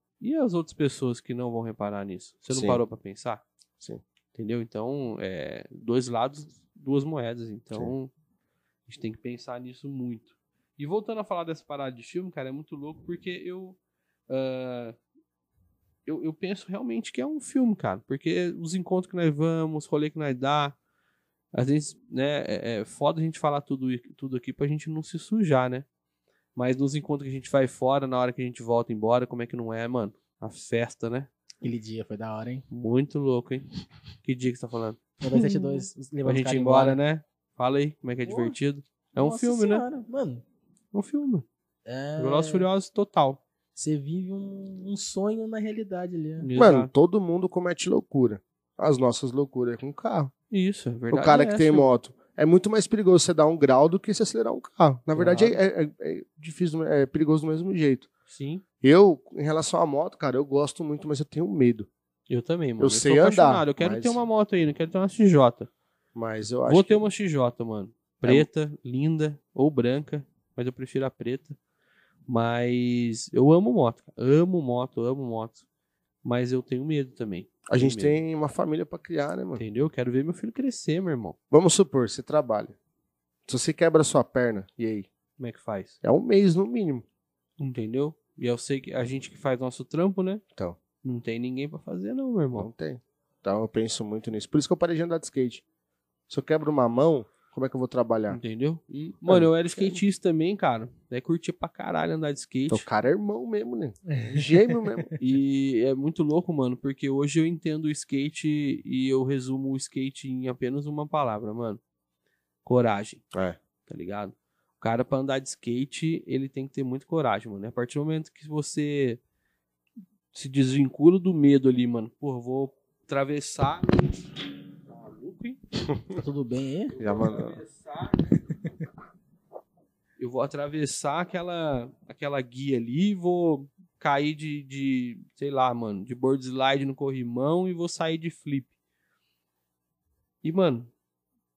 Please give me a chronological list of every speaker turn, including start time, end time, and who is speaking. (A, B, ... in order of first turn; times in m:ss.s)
0:00.2-0:03.4 A
0:02.5-0:02.8 B
0:04.3-0:08.1 A
0:08.9-0:13.8 A
0:14.3-0:15.0 A
0:16.0-0:20.8 A
0:21.5-0:25.8 A
0:26.6-0:31.3 A
0:31.6-0:32.6 C
0:32.7-0:33.6 A
0:34.2-0:39.8 A
0:35.2-0:37.0 C
0:38.2-0:38.6 C
0:39.2-0:40.4 C
0:40.9-0:41.4 A
0:41.8-0:42.7 C
0:42.2-0:43.4 A
0:43.8-0:46.5 C
0:46.4-0:46.9 A
0:46.6-0:50.3 B
0:50.5-0:51.9 A
0:51.1-0:58.1 B
0:55.1-0:55.6 A
0:58.3-0:58.6 A
0:58.8-1:01.9 B
1:02.3-1:05.7 A
1:02.8-1:04.2 B
1:06.1-1:07.0 B
1:06.6-1:11.6 A
1:12.3-1:15.6 A
1:16.2-1:18.2 A
1:17.7-1:19.6 B
1:19.6-1:21.4 A
1:21.5-1:22.7 B
1:23.5-1:25.1 B
1:25.4-1:26.0 A
1:26.0-1:27.0 B
1:27.6-1:30.4 A
1:31.0-1:32.7 A
1:32.6-1:35.6 B
1:36.3-1:40.0 B
1:38.3-1:42.9 A
1:42.7-1:45.1 B
1:44.1-1:45.0 C
1:45.2-1:51.8 A
1:52.6-1:53.2 A
1:53.3-1:53.6 B
1:53.8-1:59.2 A
2:00.3-2:04.3 A
2:04.9-2:05.6 A
2:06.1-2:07.0 C
2:06.9-2:08.3 A
2:07.0-2:07.6 B
2:10.2-2:18.7 A
2:20.4-2:20.9 A